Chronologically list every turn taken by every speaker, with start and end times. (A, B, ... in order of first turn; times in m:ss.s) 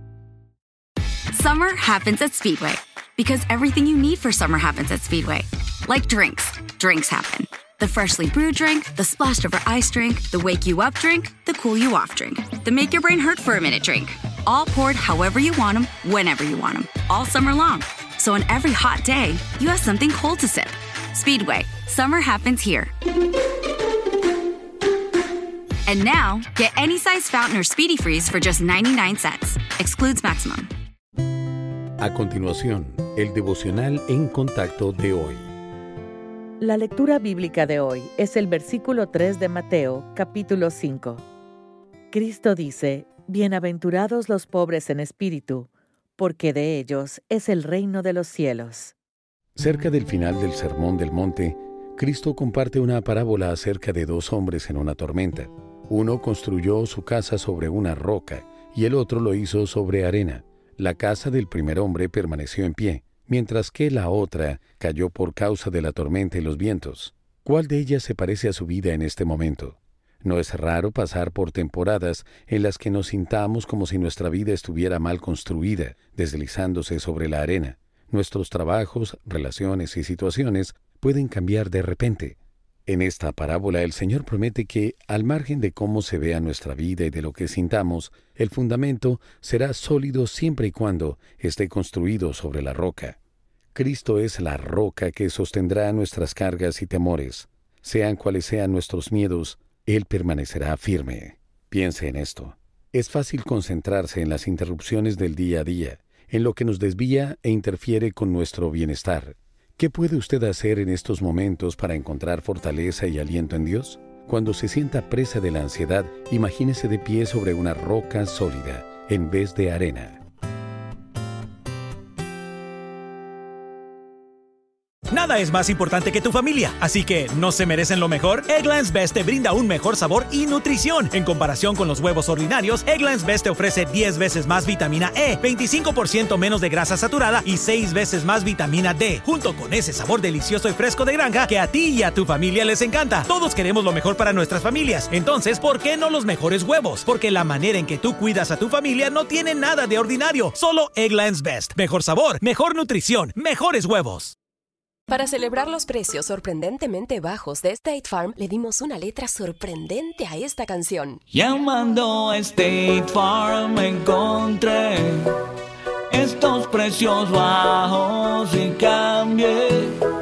0:01.3-0:22.9 A
0:25.9-0:30.7 A
0:32.0-0:35.5 B
0:36.6-0:41.2 C
0:42.1-0:48.9 C
0:49.6-1:33.2 B
1:33.8-2:00.2 B
2:05.1-2:34.4 D
2:35.1-2:41.2 E
2:41.3-2:45.5 F
2:46.1-2:50.0 F